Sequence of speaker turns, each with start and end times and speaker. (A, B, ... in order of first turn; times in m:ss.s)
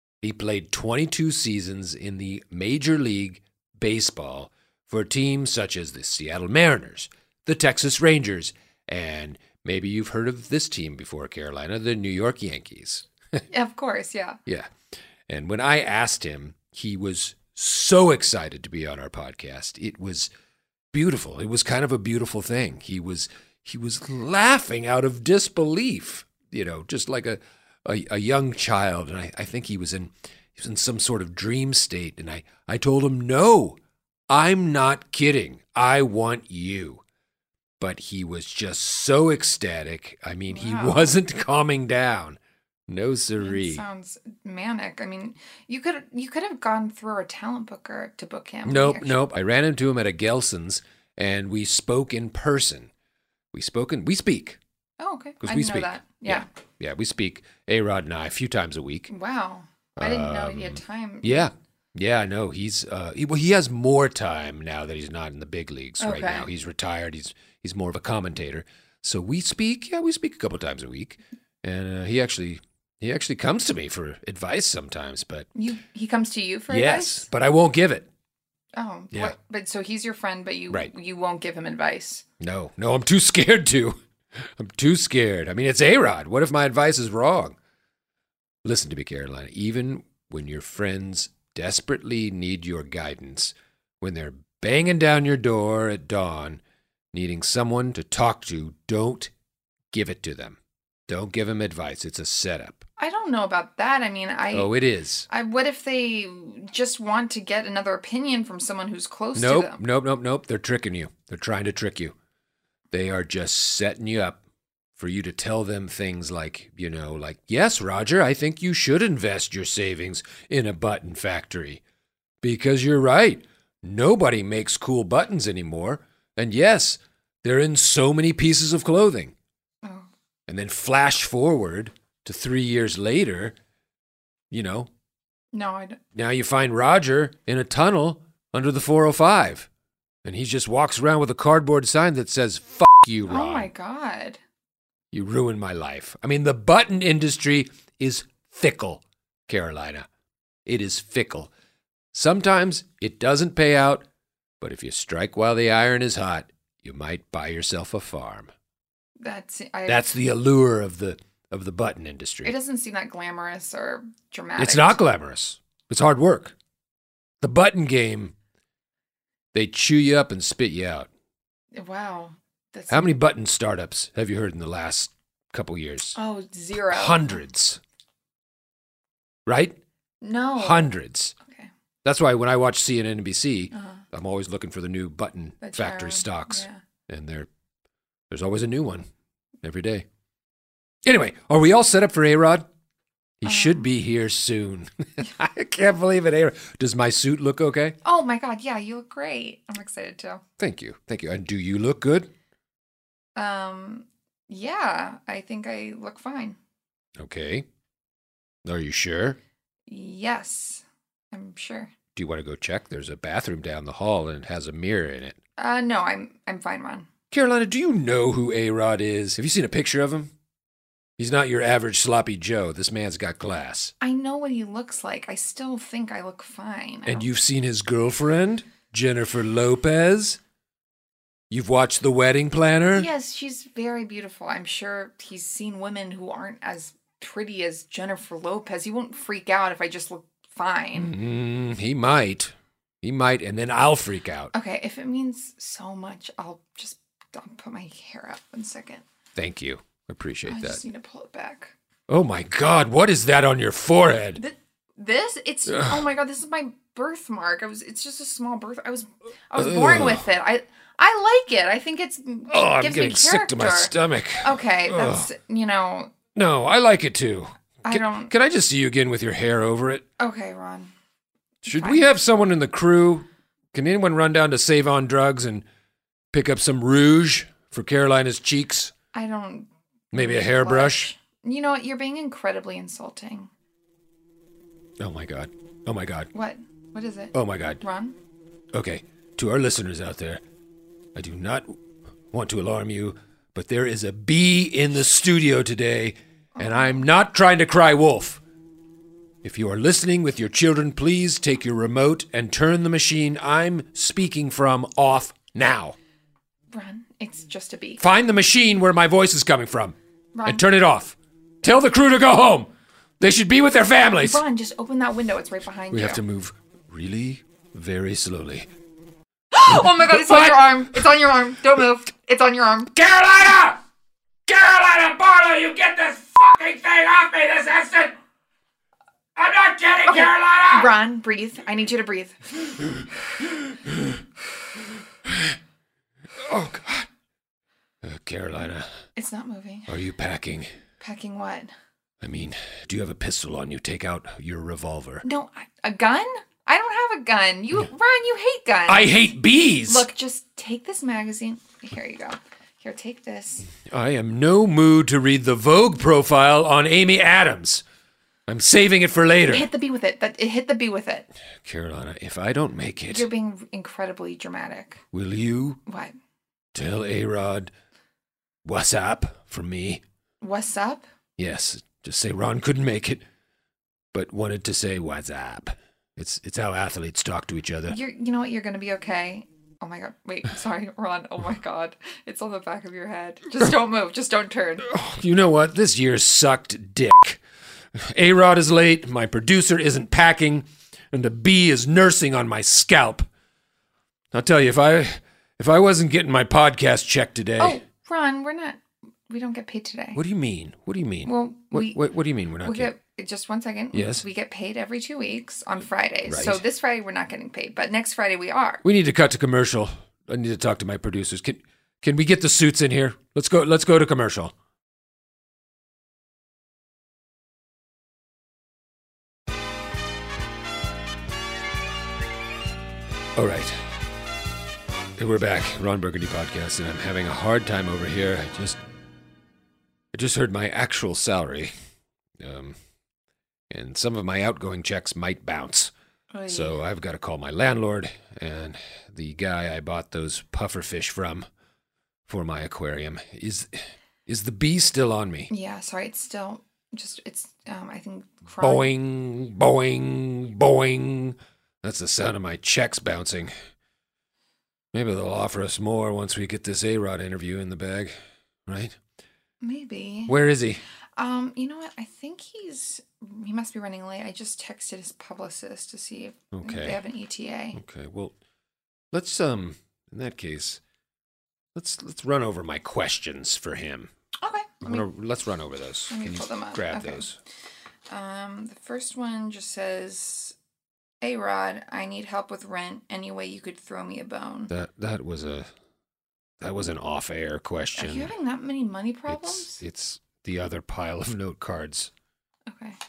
0:00.2-0:13.4 A
0:13.5-0:14.4 B
0:14.5-0:14.8 A
0:15.3-0:20.3 A
0:20.9-0:33.8 A
0:34.3-0:37.0 A
0:37.8-0:43.8 A
0:40.5-0:41.2 B
0:43.4-0:49.2 B
0:48.6-0:52.9 A
0:53.5-0:54.6 A
0:55.0-0:56.5 B
0:55.4-0:59.1 A
0:59.1-1:01.5 B
1:00.0-1:15.5 A
1:06.0-1:06.5 B
1:15.6-1:17.3 B
1:16.7-1:18.1 A
1:18.8-1:22.2 B
1:22.4-1:27.6 A
1:28.6-1:36.6 A
1:37.1-1:39.3 A
1:39.9-1:42.8 A
1:43.0-1:44.8 B
1:44.5-1:45.3 A
1:45.3-1:49.8 B
1:49.4-1:52.2 A
1:52.9-1:54.4 A
1:55.0-2:01.8 A
2:02.4-2:09.3 A
2:09.8-2:10.1 B
2:10.5-2:13.6 A
2:14.5-2:14.9 A
2:15.5-2:16.0 B
2:16.2-2:19.7 A
2:20.2-2:23.7 A
2:23.3-2:24.4 B
2:25.1-2:30.1 A
2:30.7-2:31.5 A
2:32.1-2:34.1 A
2:34.6-2:38.5 A
2:39.2-2:40.1 B
2:39.9-2:42.5 A
2:42.4-2:45.0 B
2:44.6-2:46.6 A
2:47.4-2:48.3 A
2:49.5-2:51.1 A
2:51.7-2:53.2 B
2:52.9-2:56.2 A
2:56.2-2:57.4 B
2:56.9-2:57.8 A
2:59.5-2:59.8 A
3:00.2-3:01.7 B
3:00.6-3:01.4 A
3:02.0-3:07.5 A
3:03.7-3:04.0 B
3:05.6-3:06.8 B
3:08.3-3:09.1 A
3:09.6-3:10.1 A
3:11.0-3:12.7 A
3:13.4-3:18.0 A
3:13.4-3:13.9 B
3:18.0-3:20.4 B
3:20.6-3:22.3 A
3:23.4-3:26.6 B
3:27.2-3:27.7 A
3:28.6-3:29.4 A
3:29.9-3:31.9 B
3:32.2-3:35.4 A
3:35.6-3:37.1 B
3:37.3-3:40.3 A
3:41.2-3:43.9 A
3:44.0-3:47.3 B
3:47.1-3:50.4 A
3:51.5-3:53.1 A
3:52.9-4:01.1 B
4:01.0-4:04.5 A
4:04.5-4:09.0 B
4:09.4-4:10.8 A
4:10.5-4:11.7 B
4:12.1-4:14.4 A
4:14.4-4:26.1 B
4:15.7-4:16.1 A
4:19.6-4:20.2 A
4:22.5-4:25.3 A
4:26.4-4:30.0 A
4:27.8-4:28.3 B
4:30.2-4:30.9 B
4:31.6-4:35.6 A
4:31.6-4:32.1 B
4:36.3-4:38.9 A
4:39.1-4:43.5 B
4:40.1-4:41.1 A
4:45.0-4:46.3 A
4:46.3-4:48.2 B
4:47.3-4:47.8 A
4:48.7-4:50.4 A
4:51.2-4:51.8 A
4:52.3-4:58.4 A
4:56.6-4:57.1 B
4:59.4-5:06.0 A
5:06.7-5:08.0 B
5:08.0-5:14.4 A
5:10.3-5:10.6 B
5:14.2-5:16.2 B
5:15.9-5:18.7 A
5:19.5-5:22.9 B
5:19.7-5:21.0 A
5:22.9-5:23.8 A
5:24.5-5:28.2 A
5:29.4-5:30.9 A
5:30.0-5:32.4 B
5:33.8-5:34.2 A
5:35.2-5:35.6 A
5:36.4-5:37.1 A
5:38.0-5:39.0 A
5:39.2-5:39.9 B
5:39.9-5:40.7 A
5:41.0-5:41.7 B
5:42.2-5:45.2 A
5:45.2-5:49.1 B
5:48.9-5:50.1 A
5:49.9-5:53.7 B
5:53.9-5:57.8 A
5:58.5-5:59.7 A
5:59.5-6:01.3 B
6:01.6-6:03.3 A
6:03.1-6:05.0 B
6:05.1-6:05.8 A
6:05.9-6:06.2 B
6:06.7-6:07.7 A
6:08.6-6:10.0 A
6:10.4-6:11.0 B
6:11.4-6:13.2 A
6:14.1-6:18.0 A
6:17.9-6:24.9 B
6:24.8-6:27.4 A
6:28.0-6:33.3 A
6:34.3-6:37.8 A
6:37.6-6:40.2 B
6:40.2-6:42.9 A
6:41.2-6:42.0 B
6:42.6-6:48.8 B
6:43.9-6:44.2 A
6:46.3-6:46.6 A
6:48.8-6:54.5 A
7:03.4-7:03.9 A
7:05.2-7:08.8 A
7:10.1-7:11.7 A
7:12.4-7:12.8 A
7:13.7-7:15.9 A
7:16.3-7:16.8 B
7:16.5-7:21.5 A
7:22.3-7:25.5 A
7:25.5-7:28.9 B
7:28.6-7:33.5 A
7:34.9-7:38.2 A
7:38.7-7:39.0 A
7:39.6-7:40.4 B
7:40.3-7:40.8 A
7:41.2-7:47.8 B
7:46.5-7:47.0 A
7:47.7-7:48.4 A
7:49.1-7:50.8 A
7:51.8-7:54.1 A
7:54.4-7:55.1 B
7:54.8-7:57.4 A
7:56.1-7:57.3 B
7:58.1-8:00.6 B
8:01.2-8:04.7 B
8:04.7-8:05.7 A
8:06.6-8:08.3 A
8:08.0-8:09.8 B
8:09.3-8:12.1 A
8:12.7-8:13.0 B